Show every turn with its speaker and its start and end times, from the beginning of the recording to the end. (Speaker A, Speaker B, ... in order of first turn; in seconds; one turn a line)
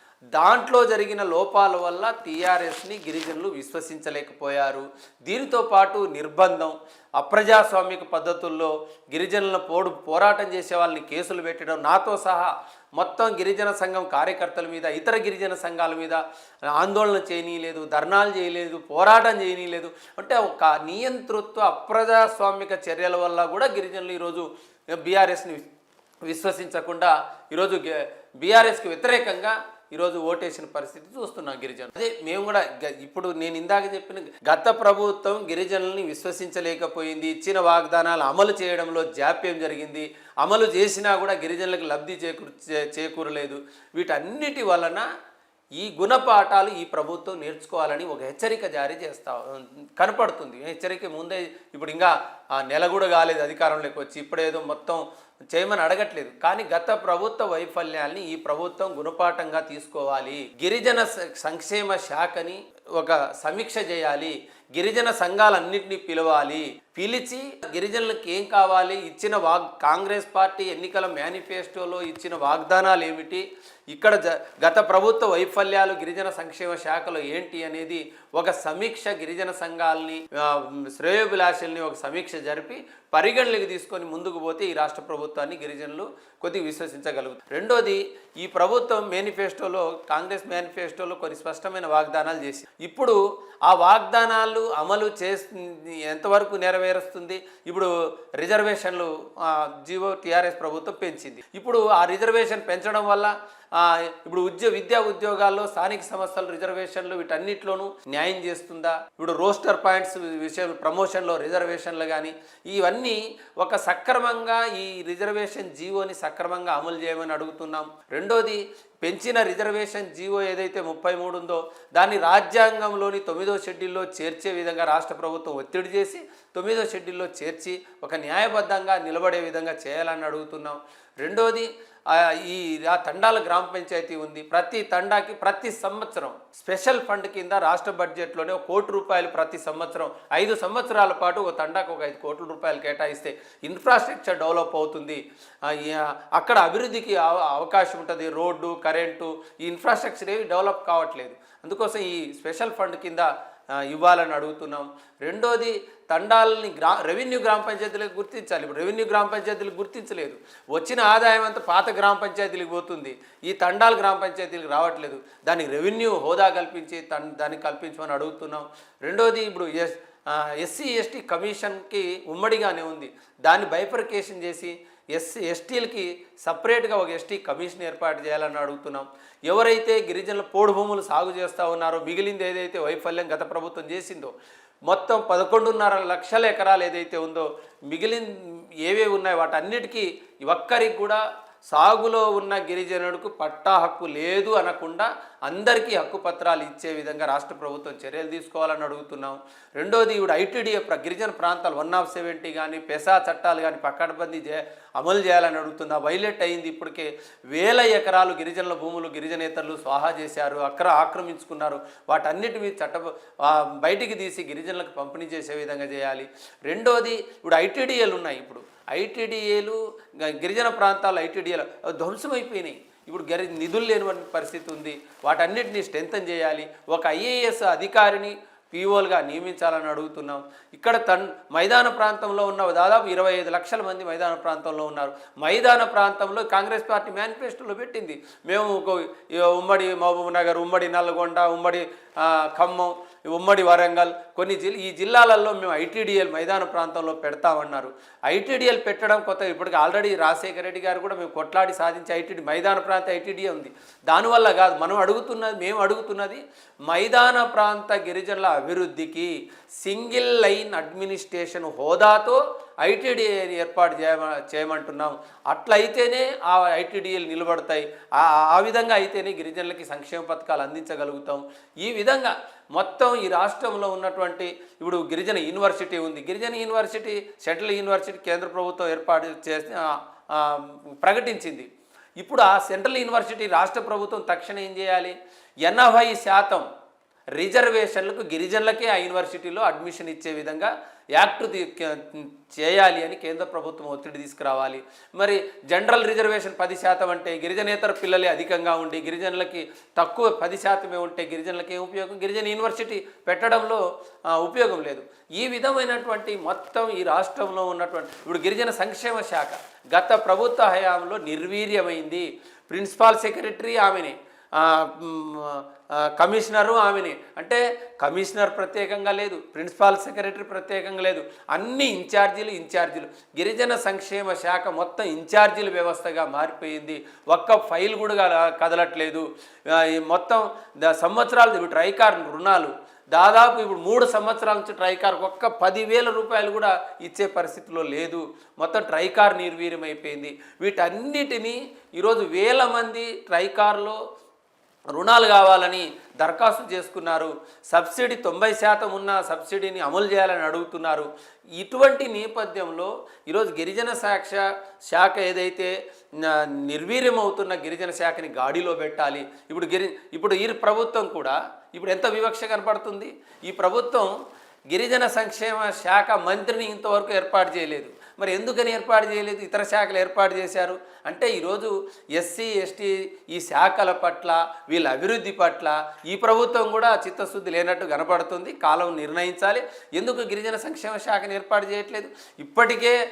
Speaker A: 0.3-25.7
Speaker A: 26.2-45.1
Speaker A: 45.8-153.3
Speaker A: 153.8-184.3
Speaker A: 184.9-281.7
Speaker A: 282.2-286.6
Speaker A: 287.4-344.0
Speaker A: 344.9-364.1
Speaker A: 364.7-383.0